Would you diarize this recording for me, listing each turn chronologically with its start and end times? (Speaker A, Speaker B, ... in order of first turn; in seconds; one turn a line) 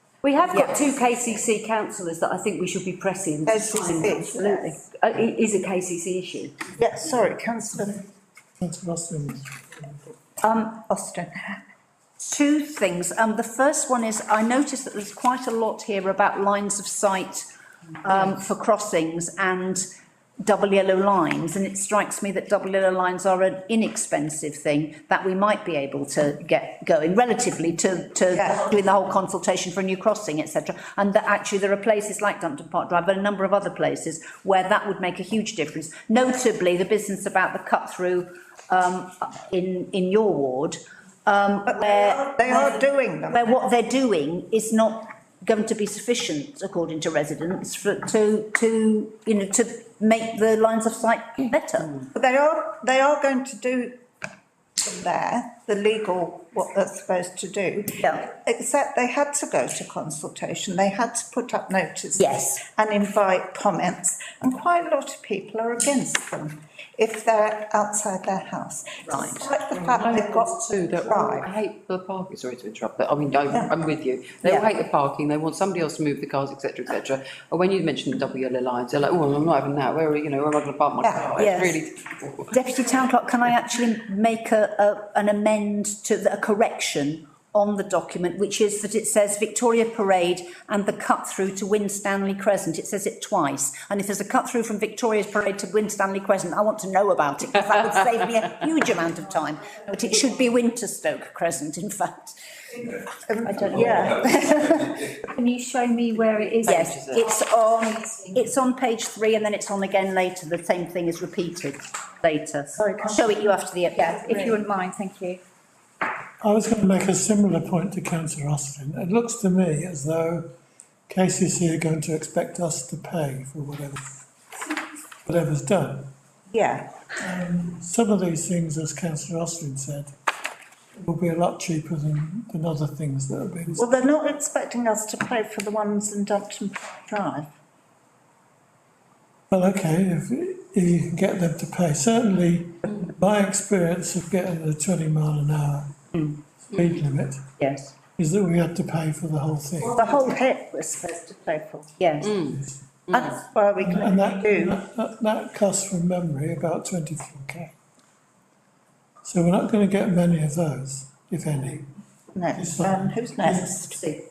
Speaker A: 0.2-6.5
Speaker B: 0.4-0.9
Speaker C: 3.5-4.8
Speaker C: 6.8-8.1
Speaker D: 8.6-9.6
Speaker B: 10.4-10.7
Speaker C: 10.6-11.6
Speaker B: 12.2-17.4
Speaker B: 18.0-19.8
Speaker B: 20.4-52.0
Speaker C: 28.3-28.6
Speaker C: 41.7-43.5
Speaker C: 52.1-54.0
Speaker C: 54.8-71.5
Speaker B: 58.0-58.3
Speaker B: 62.2-62.6
Speaker B: 69.0-69.5
Speaker E: 69.7-82.5
Speaker B: 74.4-74.7
Speaker C: 81.0-81.3
Speaker B: 81.4-81.8
Speaker B: 82.5-102.4
Speaker C: 102.9-104.7
Speaker B: 103.4-115.4
Speaker E: 106.6-107.3
Speaker C: 112.8-113.6
Speaker C: 114.2-114.6
Speaker D: 116.4-120.4
Speaker D: 121.1-126.1
Speaker C: 126.5-126.9
Speaker D: 127.2-130.1
Speaker D: 131.0-133.9
Speaker C: 133.8-137.5
Speaker D: 139.5-147.4
Speaker B: 147.6-147.9
Speaker D: 148.2-150.0
Speaker C: 149.8-151.9
Speaker B: 149.9-150.4
Speaker B: 152.0-152.4
Speaker E: 152.2-152.6
Speaker D: 152.4-152.9
Speaker C: 153.1-154.8
Speaker D: 153.8-157.7
Speaker D: 159.2-161.9
Speaker C: 162.3-164.0
Speaker D: 162.5-163.7